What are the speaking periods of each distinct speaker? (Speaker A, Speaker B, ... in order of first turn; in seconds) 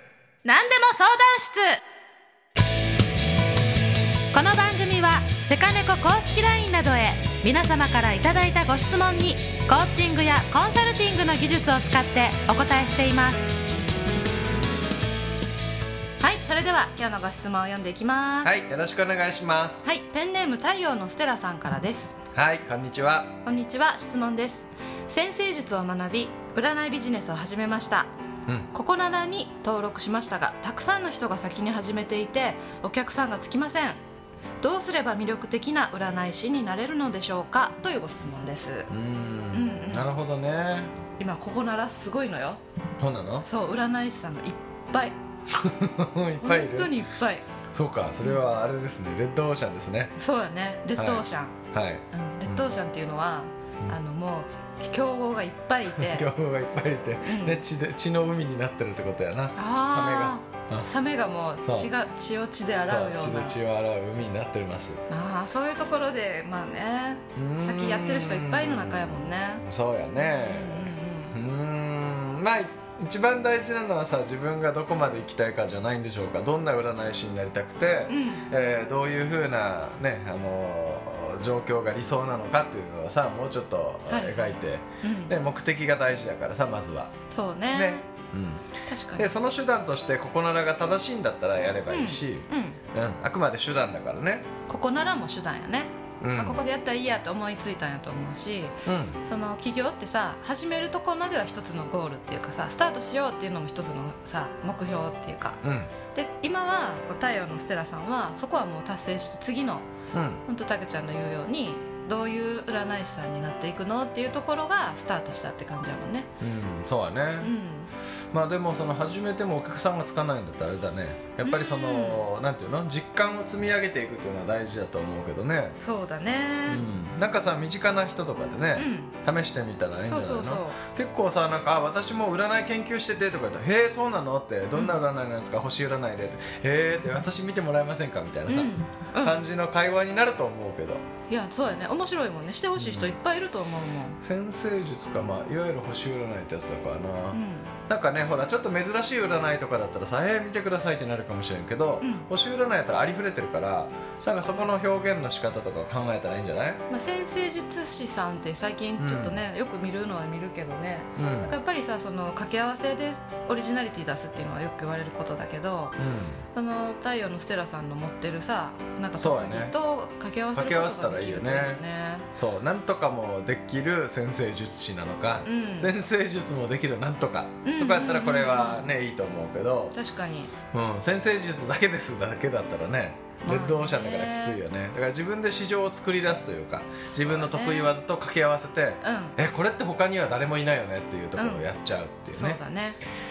Speaker A: 0.5-1.8, 4.3-13.5, 16.2-18.5, 19.8-22.2, 23.4-28.1, 28.7-34.0, 34.6-38.9, 39.5-40.1, 41.2-42.6, 43.4-45.1, 46.4-47.5, 50.2-51.6, 52.1-56.3, 57.2-57.6, 59.6-63.6, 65.1-69.7, 70.2-71.4, 78.1-78.5, 84.1-85.3, 87.3-88.1, 88.9-89.3, 91.9-92.8, 94.7-109.9, 110.5-116.3, 117.4-117.9, 121.4-122.3, 125.8-126.9, 128.8-129.1, 130.0-130.8, 138.5-139.4, 141.3-144.2, 147.3-147.7, 152.0-152.3, 156.9-166.0, 166.5-172.3, 175.4-175.9, 177.6-178.9, 179.9-180.5, 183.4-184.6, 187.1-187.9, 189.0-189.4, 191.4-191.7, 192.3-193.0
Speaker B: 18.4-19.9, 22.3-23.4, 38.9-40.9, 43.0-43.5, 45.5-46.9, 47.7-50.1, 51.0-52.8, 55.9-60.9, 61.6-61.9, 62.8-65.0, 67.4-87.1, 87.7-88.7, 89.2-94.5, 96.2-96.6, 98.9-99.2, 105.6-105.9, 110.1-110.4, 116.4-117.5, 118.3-125.8, 126.7-141.0, 142.8-143.2, 144.2-156.8, 159.0-159.4, 161.2-161.5, 166.0-166.4, 169.2-169.7, 170.5-171.8, 172.3-179.9, 180.7-192.6